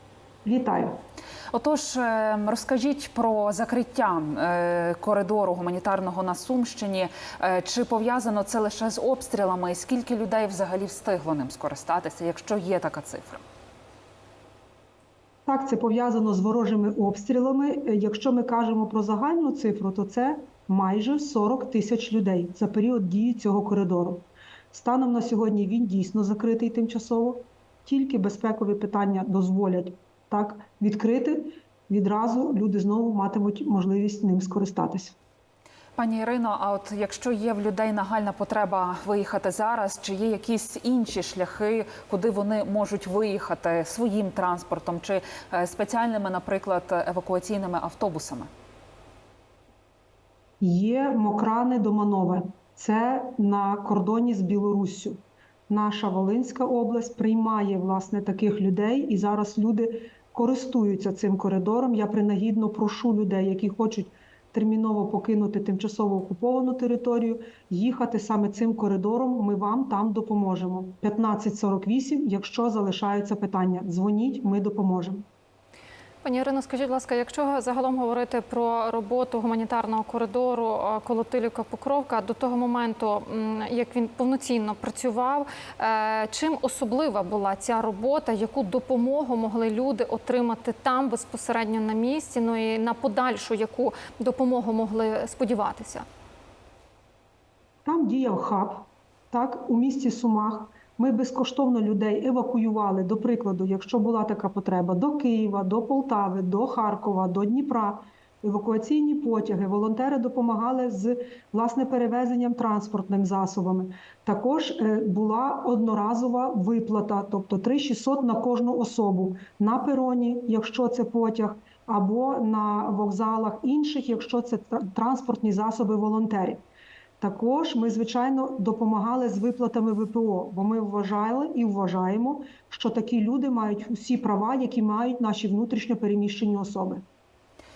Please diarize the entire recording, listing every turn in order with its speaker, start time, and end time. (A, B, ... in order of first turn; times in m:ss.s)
0:00.4-0:01.0 A
0:01.5-0:13.4 B
0:15.4-0:35.2 A
0:36.0-0:48.5 B
0:50.6-1:15.2 A
1:16.2-1:36.0 C
1:37.8-2:06.6 A
2:07.2-2:17.0 A